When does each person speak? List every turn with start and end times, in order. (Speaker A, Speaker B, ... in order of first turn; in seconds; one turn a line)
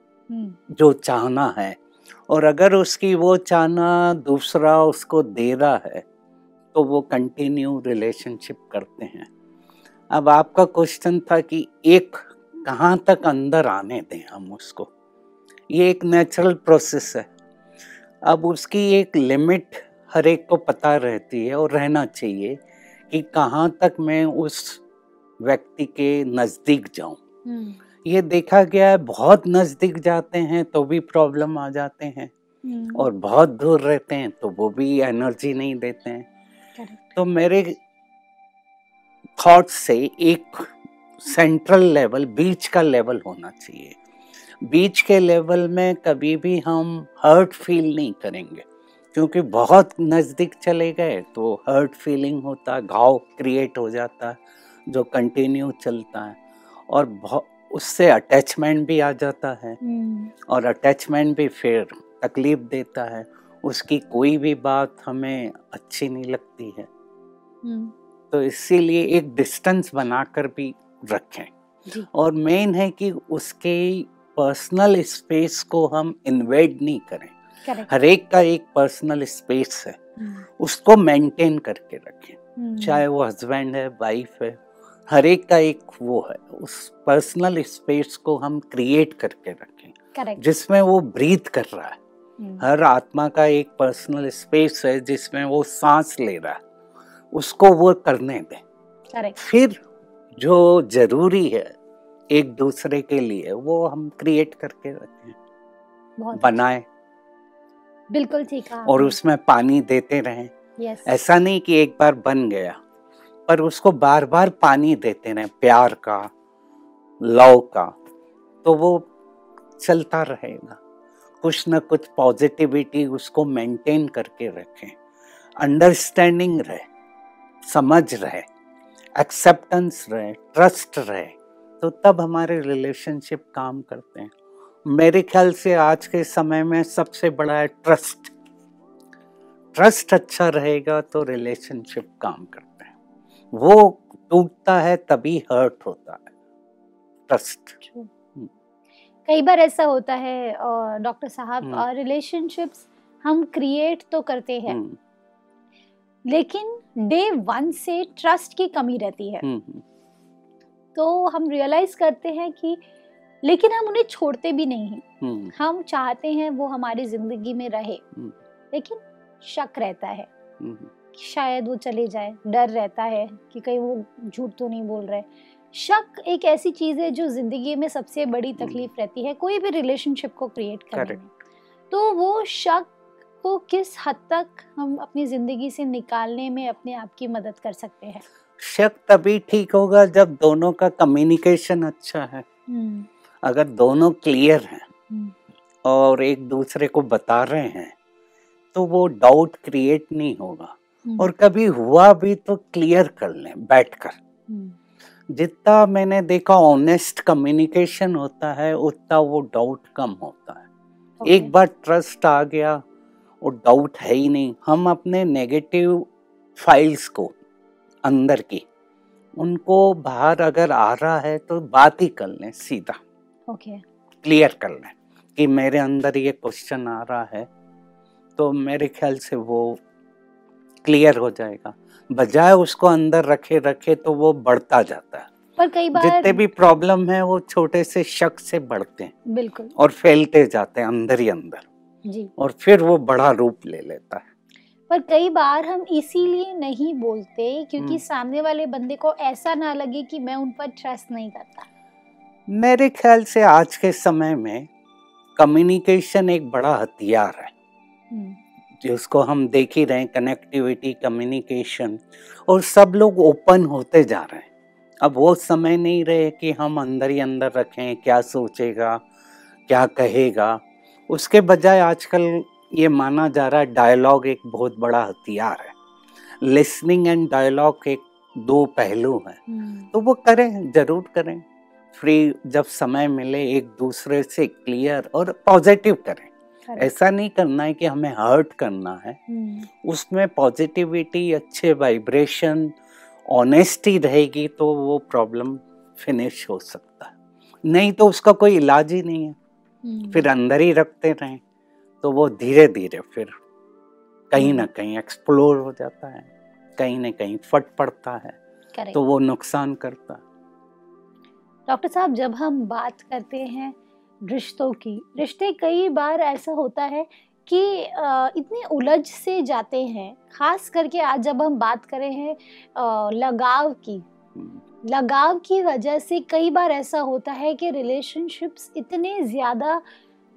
Speaker A: 0.3-0.6
Speaker B: 0.7-6.0
Speaker B: 6.7-9.3
Speaker B: 10.1-14.9
Speaker B: 15.7-17.3
Speaker B: 18.2-22.6
Speaker B: 23.1-24.8
Speaker B: 25.4-27.2
Speaker A: 27.5-27.8
Speaker B: 28.0-32.3
Speaker A: 32.6-33.1
Speaker B: 33.0-36.3
Speaker A: 36.8-37.2
Speaker B: 37.2-37.8
Speaker B: 39.4-44.0
Speaker B: 44.6-56.4
Speaker B: 56.9-59.8
Speaker A: 59.8-60.3
Speaker B: 60.5-66.9
Speaker A: 67.6-67.9
Speaker B: 68.3-71.5
Speaker B: 72.1-77.3
Speaker B: 77.9-80.0
Speaker A: 80.2-80.5
Speaker B: 80.6-92.0
Speaker A: 82.6-83.1
Speaker A: 90.2-90.4
Speaker A: 92.4-92.7
Speaker B: 92.6-96.6
Speaker B: 97.3-98.6
Speaker B: 99.4-99.8
Speaker B: 100.4-101.7
Speaker B: 102.3-105.4
Speaker A: 106.2-106.6
Speaker B: 106.3-106.9
Speaker A: 108.1-109.2
Speaker B: 108.9-110.5
Speaker A: 110.8-111.1
Speaker B: 111.1-112.8
Speaker B: 113.5-116.3
Speaker B: 117.2-118.0
Speaker B: 118.6-119.1
Speaker B: 119.8-120.8
Speaker B: 121.4-125.0
Speaker B: 125.6-126.8
Speaker B: 127.6-128.4
Speaker B: 129.2-134.3
Speaker B: 134.8-138.3
Speaker B: 139.7-142.9
Speaker B: 143.5-146.3
Speaker B: 147.3-147.8
Speaker A: 147.8-148.1
Speaker A: 149.3-154.8
Speaker B: 154.7-155.0
Speaker A: 156.3-159.5
Speaker B: 159.4-159.8
Speaker A: 160.9-162.8
Speaker A: 163.4-165.0
Speaker B: 165.2-165.5
Speaker A: 165.6-168.0
Speaker A: 168.7-170.3
Speaker B: 170.6-170.9
Speaker A: 171.1-181.3
Speaker B: 178.6-178.8
Speaker B: 180.9-181.2
Speaker A: 181.9-182.9
Speaker A: 183.4-188.2
Speaker B: 188.6-192.4
Speaker A: 192.7-193.1
Speaker B: 193.4-194.9
Speaker B: 195.8-197.9
Speaker B: 198.7-204.2
Speaker A: 204.5-204.8
Speaker B: 205.3-210.7
Speaker A: 211.2-211.5
Speaker B: 211.2-212.8
Speaker B: 213.4-217.4
Speaker B: 218.0-218.7
Speaker B: 219.4-223.0
Speaker A: 223.5-223.8
Speaker B: 224.2-227.5
Speaker B: 228.4-229.8
Speaker B: 230.8-235.3
Speaker A: 235.6-236.4
Speaker B: 235.9-239.1
Speaker A: 239.3-239.7
Speaker B: 239.8-241.7
Speaker A: 242.1-242.3
Speaker B: 242.4-244.2
Speaker A: 244.9-251.7
Speaker B: 252.5-254.7
Speaker B: 255.4-257.5
Speaker A: 258.1-258.4
Speaker B: 258.8-264.5
Speaker B: 265.0-269.0
Speaker B: 269.7-275.8
Speaker B: 276.4-279.4
Speaker A: 279.5-279.9
Speaker B: 279.9-289.2
Speaker A: 289.3-289.7
Speaker B: 289.8-292.7
Speaker B: 293.3-297.1
Speaker B: 297.6-299.4
Speaker A: 299.9-300.3
Speaker B: 300.1-301.4
Speaker B: 302.0-303.3
Speaker B: 304.3-308.4
Speaker A: 304.4-304.7
Speaker B: 308.9-310.2
Speaker A: 311.7-313.8
Speaker A: 314.3-324.1
Speaker A: 324.9-329.8